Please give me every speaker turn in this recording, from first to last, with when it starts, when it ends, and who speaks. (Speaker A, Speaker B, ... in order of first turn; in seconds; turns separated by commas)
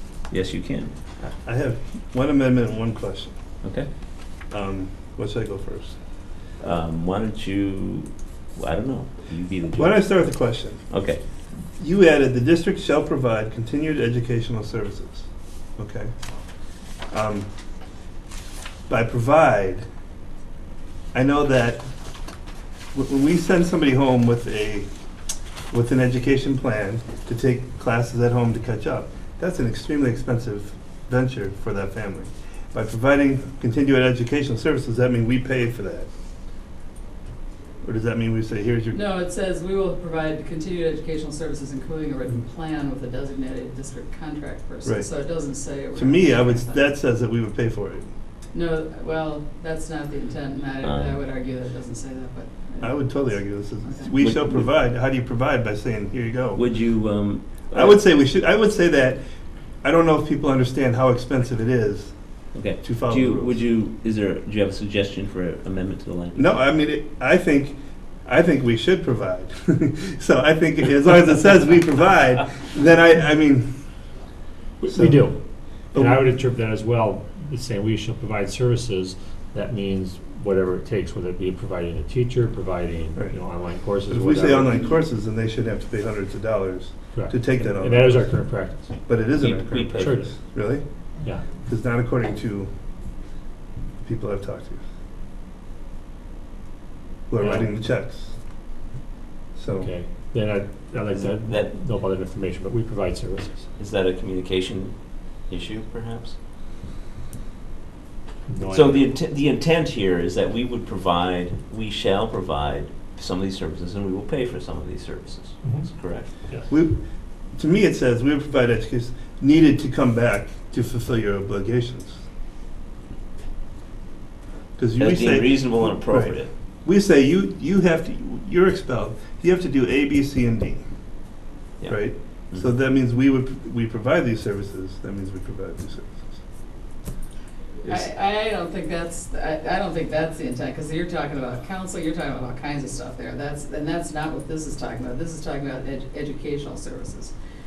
Speaker A: 0.3-0.9, Speaker B: 1.2-3.3, Speaker A: 3.6-3.9, Speaker B: 4.5-5.9, Speaker A: 6.6-10.0, Speaker B: 9.8-10.8, Speaker A: 10.9-11.2, Speaker B: 11.8-16.1, Speaker B: 17.1-17.5, Speaker B: 18.9-19.9, Speaker B: 21.1-21.8, Speaker B: 22.9-24.9, Speaker B: 25.7-36.1, Speaker B: 37.8-39.0, Speaker C: 38.9-46.9, Speaker B: 45.9-48.1, Speaker C: 48.5-54.1, Speaker A: 50.8-51.2, Speaker B: 52.8-56.6, Speaker A: 54.2-54.7, Speaker A: 56.5-58.0, Speaker B: 57.7-59.2, Speaker B: 59.8-62.1, Speaker A: 62.5-66.5, Speaker B: 62.8-63.6, Speaker B: 66.3-73.7, Speaker D: 74.8-75.4, Speaker B: 74.9-75.3, Speaker D: 75.9-85.0, Speaker B: 75.9-76.2, Speaker B: 84.1-88.3, Speaker D: 87.1-89.2, Speaker B: 89.1-90.8, Speaker A: 89.4-90.3, Speaker D: 89.9-90.4, Speaker D: 91.2-91.5, Speaker B: 91.6-92.7, Speaker B: 94.0-94.8, Speaker B: 97.3-98.3, Speaker D: 97.4-97.7, Speaker B: 99.5-99.9, Speaker D: 99.7-103.7, Speaker A: 101.1-101.7, Speaker A: 103.8-106.3, Speaker D: 108.5-109.2, Speaker A: 108.7-116.3, Speaker D: 115.6-115.9, Speaker D: 116.4-116.7, Speaker B: 116.7-117.0, Speaker B: 117.6-122.2, Speaker B: 124.8-130.8, Speaker A: 125.0-126.5, Speaker B: 131.9-136.3, Speaker C: 137.8-147.3